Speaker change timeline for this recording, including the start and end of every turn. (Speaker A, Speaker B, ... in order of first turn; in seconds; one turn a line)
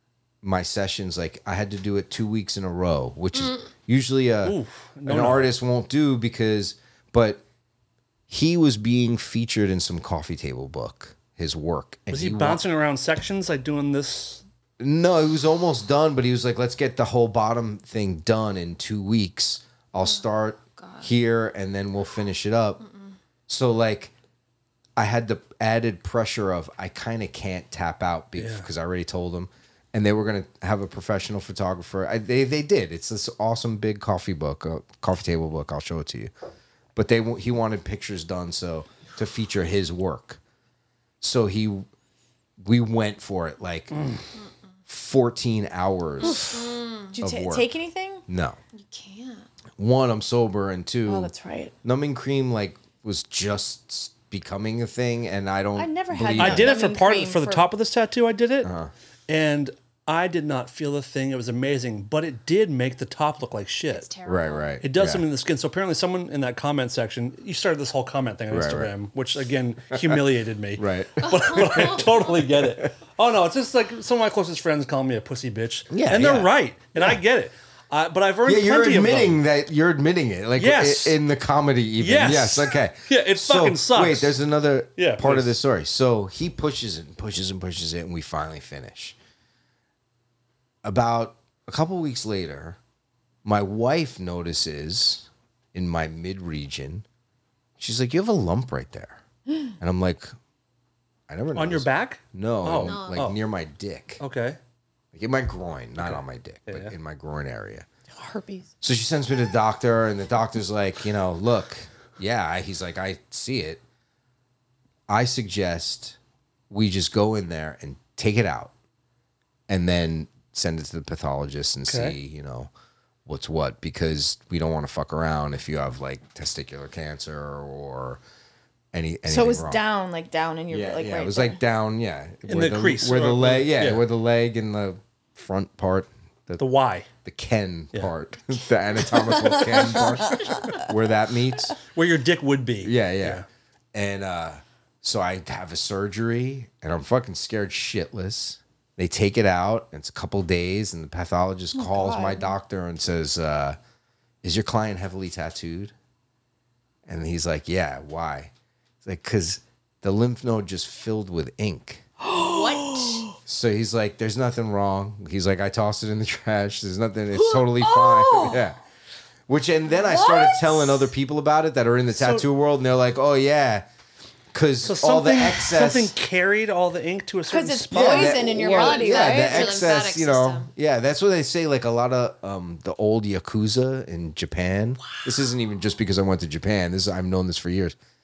Speaker A: 0.4-7.4
Speaker B: 4.4-5.5
Speaker A: 8.3-12.6
Speaker B: 12.1-14.4
Speaker A: 14.8-22.8
Speaker C: 20.8-21.1
Speaker C: 22.8-23.1
Speaker A: 23.5-24.1
Speaker A: 25.0-36.3
Speaker B: 28.4-28.7
Speaker A: 37.0-40.4
Speaker A: 41.2-41.9
Speaker A: 42.6-44.0
Speaker B: 43.9-44.2
Speaker A: 44.9-46.6
Speaker C: 46.2-47.1
Speaker D: 47.1-48.2
Speaker A: 47.2-47.7
Speaker A: 48.3-48.6
Speaker C: 48.7-49.5
Speaker A: 49.8-51.3
Speaker D: 51.1-51.7
Speaker A: 51.8-56.8
Speaker D: 55.8-57.7
Speaker B: 56.4-58.7
Speaker A: 58.6-58.9
Speaker B: 59.3-64.1
Speaker C: 63.9-64.7
Speaker A: 64.2-65.2
Speaker B: 64.8-79.4
Speaker A: 68.5-68.9
Speaker A: 69.9-72.9
Speaker C: 71.2-72.3
Speaker A: 75.9-77.2
Speaker A: 78.4-89.2
Speaker B: 80.6-81.2
Speaker B: 82.0-84.4
Speaker B: 85.0-85.5
Speaker A: 90.8-92.8
Speaker A: 93.4-97.0
Speaker A: 97.8-99.2
Speaker A: 99.8-100.3
Speaker A: 101.3-104.2
Speaker B: 101.5-103.4
Speaker C: 102.8-103.3
Speaker B: 104.2-104.6
Speaker A: 105.1-107.8
Speaker B: 106.0-106.9
Speaker D: 108.2-108.7
Speaker A: 108.8-113.8
Speaker A: 115.1-116.2
Speaker A: 116.7-118.7
Speaker A: 119.7-122.7
Speaker B: 121.9-122.2
Speaker A: 123.2-128.2
Speaker A: 128.9-129.8
Speaker D: 129.2-131.6
Speaker A: 130.7-136.6
Speaker B: 132.4-134.0
Speaker B: 136.6-137.1
Speaker A: 137.2-141.8
Speaker B: 141.9-143.4
Speaker A: 142.8-153.8
Speaker D: 151.7-152.5
Speaker A: 154.4-155.9
Speaker A: 157.1-158.5
Speaker A: 159.0-162.1
Speaker D: 162.2-163.1
Speaker C: 162.3-163.3
Speaker A: 163.4-168.8
Speaker D: 167.8-168.6
Speaker A: 169.5-173.9
Speaker D: 170.0-171.0
Speaker B: 172.2-172.4
Speaker A: 174.5-176.1
Speaker B: 174.8-178.7
Speaker D: 177.5-179.8
Speaker A: 177.9-187.9
Speaker C: 178.6-180.7